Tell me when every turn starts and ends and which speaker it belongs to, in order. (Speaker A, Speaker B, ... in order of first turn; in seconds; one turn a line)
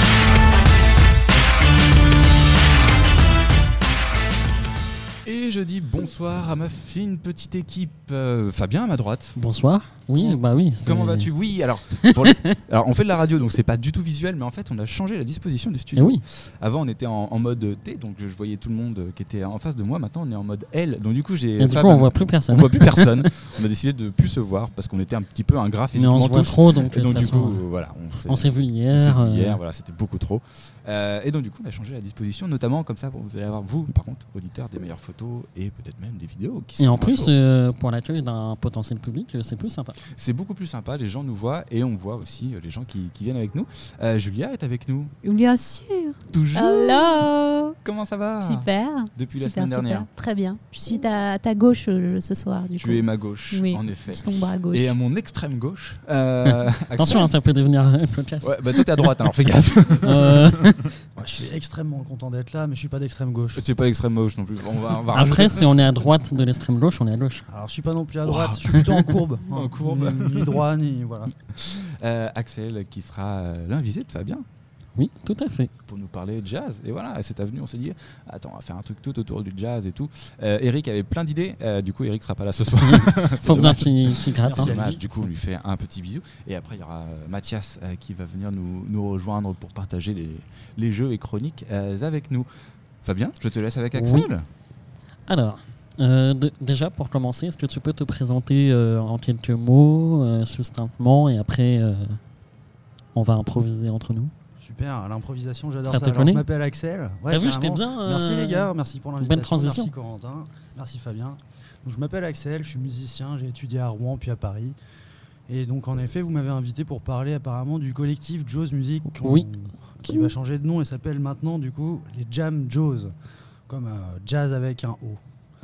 Speaker A: 5.2-9.4
Speaker B: 9.3-11.3
Speaker A: 10.1-37.3
Speaker B: 12.0-12.5
Speaker B: 15.9-16.2
Speaker B: 21.6-23.3
Speaker B: 25.9-27.6
Speaker B: 28.3-29.6
Speaker B: 36.8-40.0
Speaker A: 40.1-45.1
Speaker C: 45.2-47.8
Speaker A: 46.3-47.2
Speaker A: 47.8-50.1
Speaker C: 48.4-54.9
Speaker A: 52.8-57.3
Speaker B: 56.5-59.1
Speaker A: 58.4-60.5
Speaker B: 60.0-60.9
Speaker D: 61.2-63.6
Speaker A: 63.5-65.7
Speaker B: 65.1-67.5
Speaker D: 67.5-71.4
Speaker A: 68.3-70.6
Speaker A: 71.5-74.4
Speaker B: 75.0-75.7
Speaker A: 75.9-92.5
Speaker B: 82.8-84.7
Speaker D: 84.4-85.0
Speaker A: 93.0-94.5
Speaker B: 93.9-94.3
Speaker B: 95.3-102.2
Speaker B: 103.1-104.3
Speaker D: 104.6-114.8
Speaker B: 105.9-106.4
Speaker B: 107.3-109.9
Speaker D: 115.5-123.1
Speaker B: 119.1-119.5
Speaker D: 123.7-125.2